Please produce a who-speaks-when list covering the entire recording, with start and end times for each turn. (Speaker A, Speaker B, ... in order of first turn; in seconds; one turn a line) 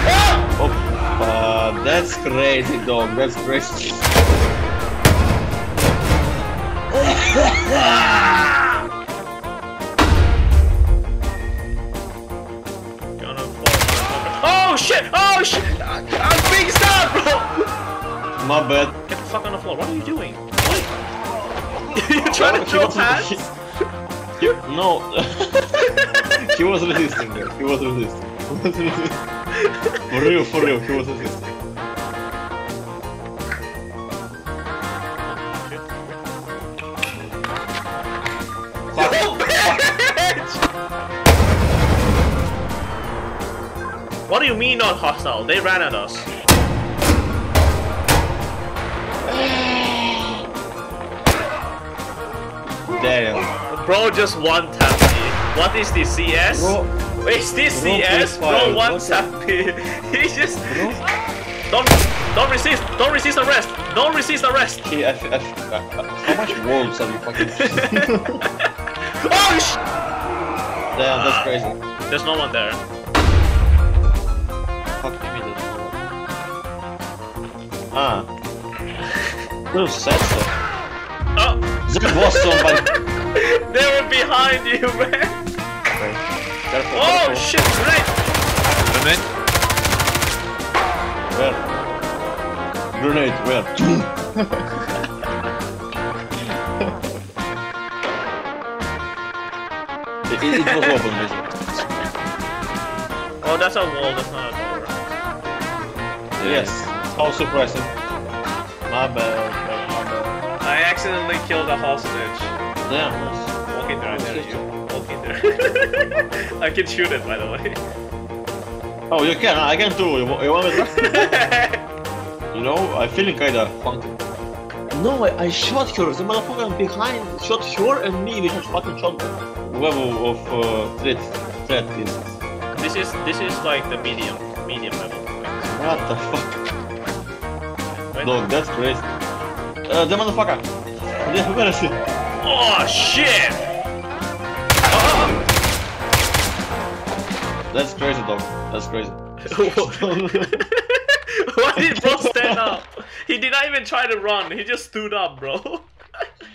Speaker A: 0.6-4.1
Speaker A: 7.0-8.1
Speaker B: 7.7-8.6
Speaker B: 13.2-17.7
Speaker A: 18.4-18.9
Speaker B: 19.1-20.9
Speaker B: 21.9-23.4
Speaker A: 22.4-23.4
Speaker A: 24.4-25.9
Speaker A: 26.4-29.2
Speaker B: 29.6-30.0
Speaker A: 30.1-31.5
Speaker B: 35.4-36.0
Speaker A: 38.9-39.9
Speaker B: 39.0-40.6
Speaker B: 44.3-46.3
Speaker A: 49.3-50.4
Speaker A: 52.9-53.5
Speaker B: 53.7-60.9
Speaker A: 56.5-56.9
Speaker A: 57.7-59.3
Speaker A: 60.7-61.0
Speaker B: 61.7-64.8
Speaker A: 64.8-68.4
Speaker B: 67.4-68.7
Speaker B: 69.2-69.8
Speaker A: 70.9-71.8
Speaker B: 71.1-71.5
Speaker B: 72.1-72.8
Speaker A: 75.0-76.0
Speaker A: 77.9-78.3
Speaker A: 79.7-80.5
Speaker B: 81.4-85.4
Speaker A: 81.9-82.8
Speaker A: 85.9-87.5
Speaker B: 86.9-88.2
Speaker B: 88.9-89.2
Speaker A: 91.3-91.6
Speaker A: 92.9-95.0
Speaker A: 100.3-101.7
Speaker B: 100.5-100.9
Speaker B: 103.4-105.1
Speaker A: 106.4-108.0
Speaker B: 106.4-106.7
Speaker A: 108.9-110.4
Speaker B: 110.6-112.5
Speaker A: 112.9-114.7
Speaker B: 113.7-117.8
Speaker A: 119.1-121.3
Speaker B: 121.0-121.8
Speaker A: 122.5-124.2
Speaker A: 124.9-132.4
Speaker B: 132.7-136.1
Speaker A: 135.7-136.6
Speaker B: 137.9-138.4
Speaker A: 138.2-139.1
Speaker A: 139.9-140.7
Speaker A: 141.2-142.0
Speaker B: 142.4-143.6
Speaker B: 144.9-145.4
Speaker A: 147.7-150.6
Speaker B: 149.4-155.9
Speaker A: 151.8-152.7